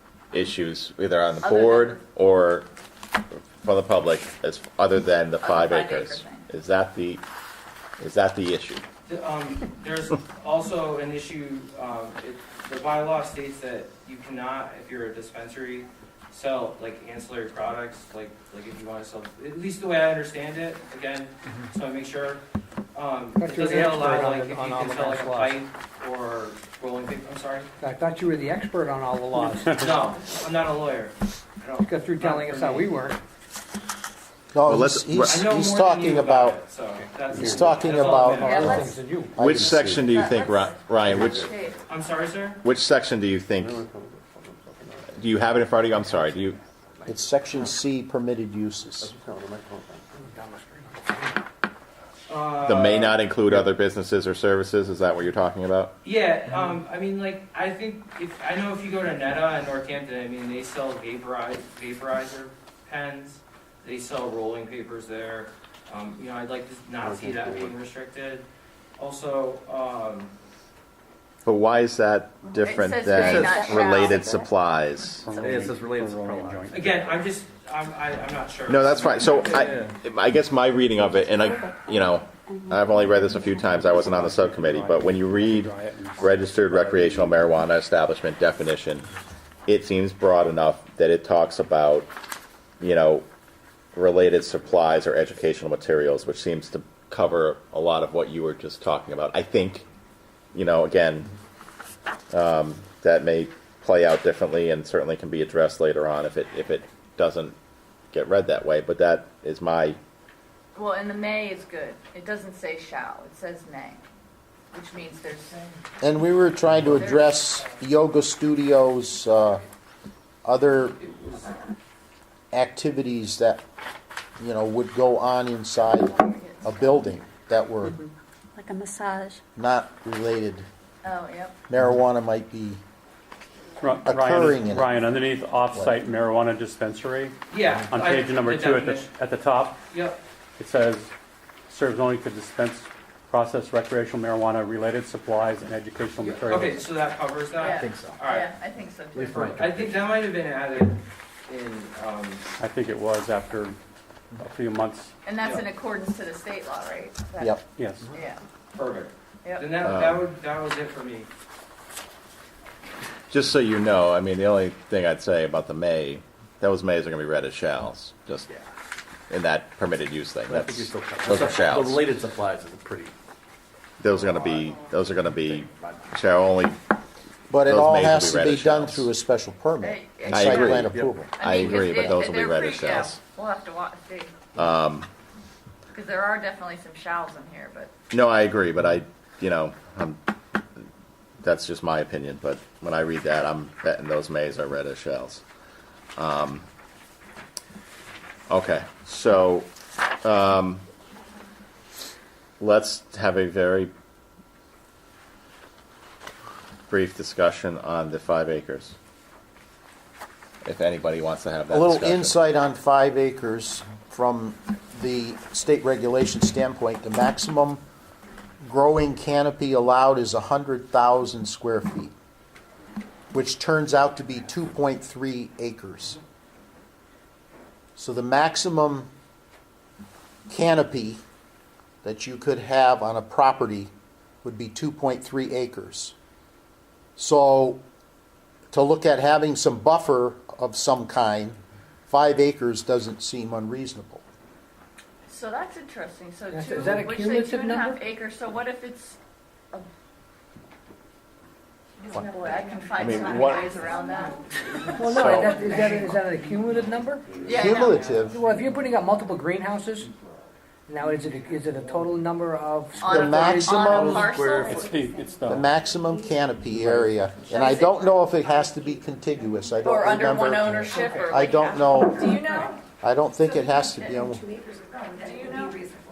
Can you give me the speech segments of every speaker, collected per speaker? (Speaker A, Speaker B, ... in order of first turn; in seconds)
Speaker A: 0.3-2.7, 3.6-7.2, 8.0-8.8, 34.7-35.5, 39.4-41.5, 42.6-43.8, 45.1-46.6, 52.6-55.9, 71.5-75.3, 78.7-89.1, 89.7-92.1, 92.8-93.3, 94.0-99.9, 100.5-101.3, 102.3-107.6, 108.1-110.0, 159.8-160.2, 163.3-168.5, 169.3-172.1, 174.0-176.8, 177.7-179.1, 180.3-183.2, 184.6-185.1, 188.1-190.2, 191.4-195.4, 196.2-196.7, 198.5-199.7, 200.2-200.8, 202.6-203.9, 206.9-209.0, 210.6-212.4, 253.0-253.8, 255.1-255.6
Speaker B: 1.4-2.0, 5.4-6.5, 38.4-39.0, 39.9-41.9, 72.6-74.5, 110.8-114.0, 114.7-115.8, 116.9-117.4, 125.8-127.0, 131.0-131.6, 147.6-149.6, 155.2-157.6, 158.1-158.4, 159.4-159.7, 179.8-180.8, 181.3-184.3, 185.9-187.9, 245.3-249.2, 252.0-254.4, 255.3-256.1, 257.3-258.1, 263.0-264.9, 267.5-267.9, 269.8-272.8, 275.1-275.8
Speaker C: 9.1-22.4, 22.9-27.7, 29.8-32.9, 35.3-38.9, 41.9-42.6, 52.3-53.2, 56.0-68.5, 69.0-70.3, 76.7-79.2, 137.5-139.1, 139.9-140.2, 146.2-148.5, 149.2-152.4, 155.4-155.7, 158.8-161.3
Speaker D: 23.4-25.6, 27.8-29.9, 31.8-33.2, 38.2-39.4, 50.2-51.3, 246.5-248.1, 254.9-257.4, 258.3-260.1, 260.9-264.3
Speaker E: 29.4-29.9, 37.3-37.6, 75.2-76.9, 83.7-86.5, 133.8-137.4, 137.9-139.8, 140.6-141.1, 141.7-146.9, 152.6-153.8, 154.4-155.1, 157.7-158.1, 264.6-265.7
Speaker F: 34.5-36.6, 37.4-40.0, 47.1-49.2, 116.0-119.6, 120.4-121.1, 122.5-123.6, 124.4-128.0, 129.6-130.7, 131.7-132.8, 134.0-135.0, 177.5-181.3, 211.7-217.8, 218.6-222.2, 223.3-226.2, 228.0-229.1, 230.5-231.2, 232.0-233.9, 234.4-236.1, 237.2-237.8, 238.7-244.2, 257.5-258.4, 263.1-264.4, 265.5-272.4, 273.0-274.4
Speaker G: 41.1-41.4, 49.2-50.0, 67.0-67.7, 73.2-74.0, 75.3-77.1, 79.5-79.9, 147.7-148.2, 149.2-150.0, 170.5-173.1, 174.2-174.8, 175.4-176.1, 180.8-182.0, 263.9-264.8
Speaker H: 82.5-83.5, 128.6-129.4